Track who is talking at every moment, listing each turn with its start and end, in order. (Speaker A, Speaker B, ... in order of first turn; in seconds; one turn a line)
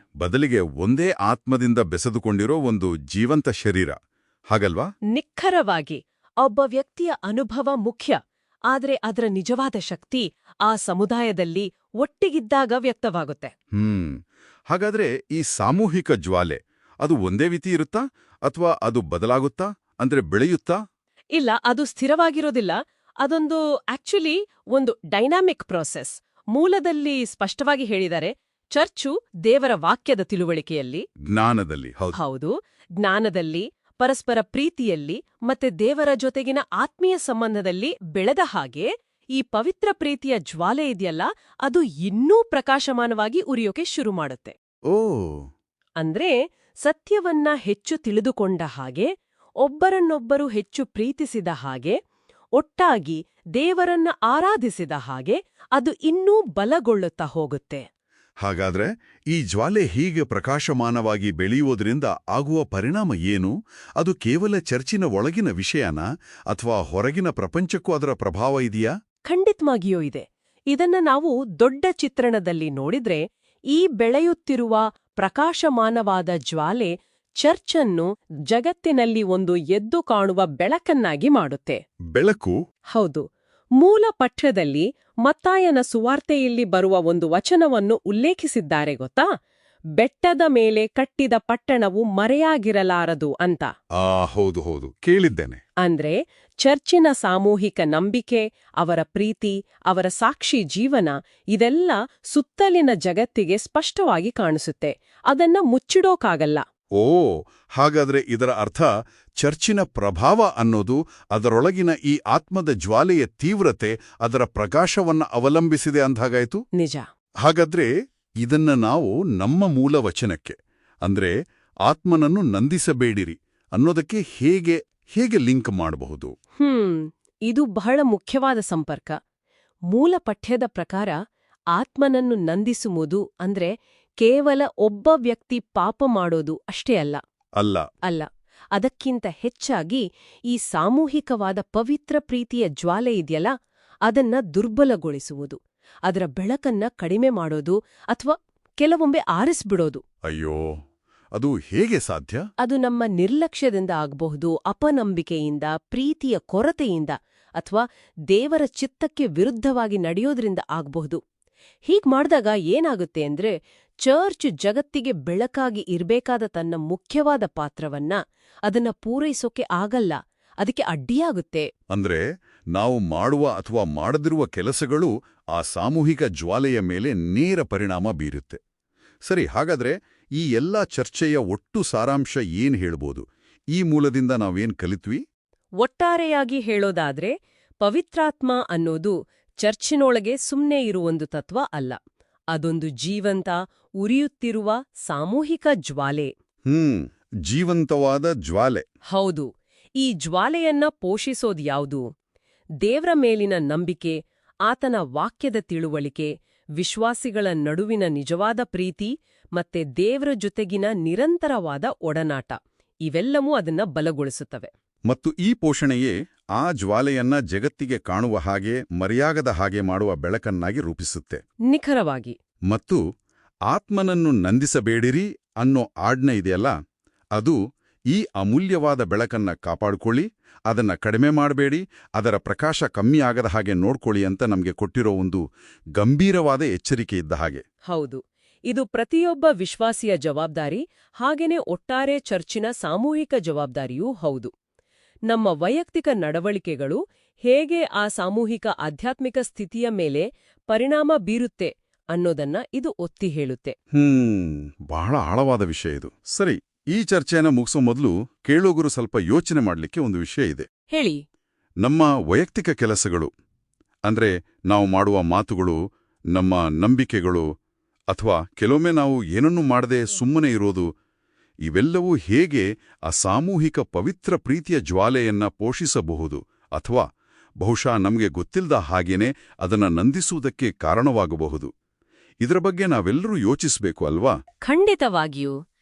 Speaker A: 0.2-4.0
Speaker A: 4.5-4.9
Speaker B: 5.2-8.2
Speaker B: 8.7-13.5
Speaker A: 13.8-14.2
Speaker A: 14.7-20.8
Speaker B: 21.3-31.0
Speaker A: 31.3-32.2
Speaker B: 32.1-44.5
Speaker A: 44.9-45.5
Speaker B: 46.0-49.1
Speaker B: 49.6-52.0
Speaker B: 52.6-57.8
Speaker A: 58.4-68.9
Speaker B: 69.3-81.8
Speaker A: 82.1-82.6
Speaker B: 82.9-83.2
Speaker B: 83.8-89.3
Speaker B: 90.0-93.7
Speaker A: 94.0-95.6
Speaker B: 95.8-106.6
Speaker A: 107.0-108.9
Speaker A: 109.4-116.6
Speaker B: 116.8-117.0
Speaker A: 117.4-117.9
Speaker A: 118.4-121.3
Speaker A: 121.9-126.3
Speaker B: 126.6-129.2
Speaker B: 129.9-131.2
Speaker B: 131.7-137.2
Speaker A: 137.6-137.9
Speaker B: 138.1-143.5
Speaker B: 144.1-150.0
Speaker A: 150.3-150.7
Speaker A: 151.3-152.4
Speaker B: 152.6-161.2
Speaker B: 161.9-171.7
Speaker A: 171.9-178.6
Speaker A: 179.3-185.2
Speaker B: 185.8-192.0
Speaker B: 192.5-196.3
Speaker A: 196.7-198.8
Speaker B: 199.1-199.5
Speaker B: 200.0-202.0
Speaker B: 202.8-204.2
Speaker B: 204.7-214.7
Speaker A: 215.1-221.4
Speaker B: 221.7-222.3
Speaker A: 222.7-223.0
Speaker A: 223.7-226.7
Speaker A: 228.1-235.4
Speaker A: 236.0-237.6
Speaker B: 237.9-244.5
Speaker B: 245.3-253.8
Speaker A: 253.9-260.7
Speaker B: 260.9-261.2
Speaker A: 261.8-263.3
Speaker A: 264.1-265.8
Speaker A: 266.3-267.5
Speaker A: 268.1-270.9
Speaker A: 271.7-277.0
Speaker A: 277.6-281.7
Speaker A: 282.4-284.3
Speaker B: 284.7-285.6